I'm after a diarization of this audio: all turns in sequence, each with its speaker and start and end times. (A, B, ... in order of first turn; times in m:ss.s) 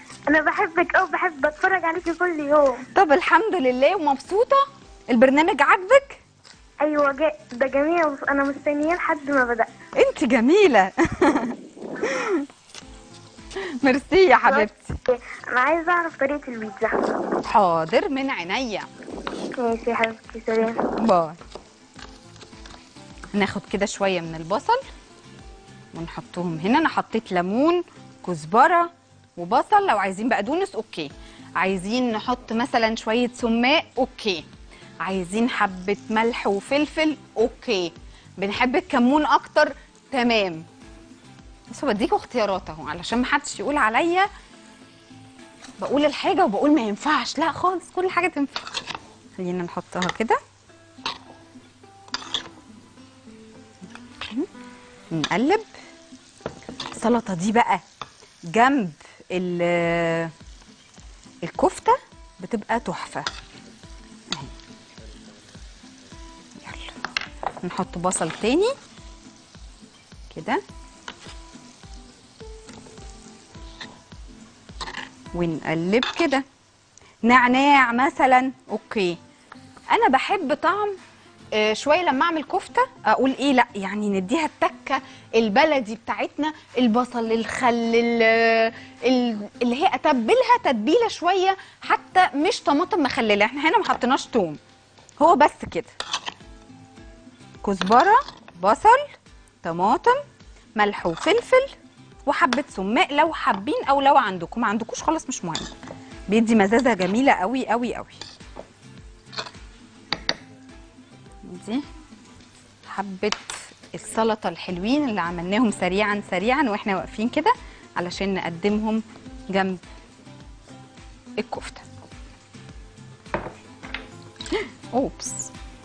0:00.3-0:02.8 A
0:02.9-0:06.2 B
0:06.8-0:09.7 A
0:10.0-0:12.4 B
0:13.6-0:14.9 B
0:14.4-0:17.1 A
0:17.4-0:18.9 B
0:19.6-0:20.9 A
0:20.7-0:21.4 B
0:23.3-0:24.8 B
0:25.9-0:34.4 B
0:35.0-0:40.6 B
0:41.7-0:44.3 B
0:45.8-0:48.6 B
0:49.4-0:50.4 B
0:55.1-0:55.7 B
0:56.9-0:57.8 B
0:58.5-1:00.3 B
1:01.4-1:03.3 B
1:06.6-1:07.0 B
1:07.6-1:08.7 B
1:10.3-1:10.6 B
1:15.3-1:16.4 B
1:17.2-1:19.2 B
1:19.9-1:21.0 B
1:21.5-1:34.6 B
1:35.2-1:35.9 B
1:37.6-1:40.2 B
1:40.8-1:41.8 B
1:42.3-1:45.7 B
1:46.3-1:48.2 B
1:51.4-1:51.8 B
1:52.8-1:59.8 B
2:01.4-2:01.8 B
2:04.5-2:05.5 B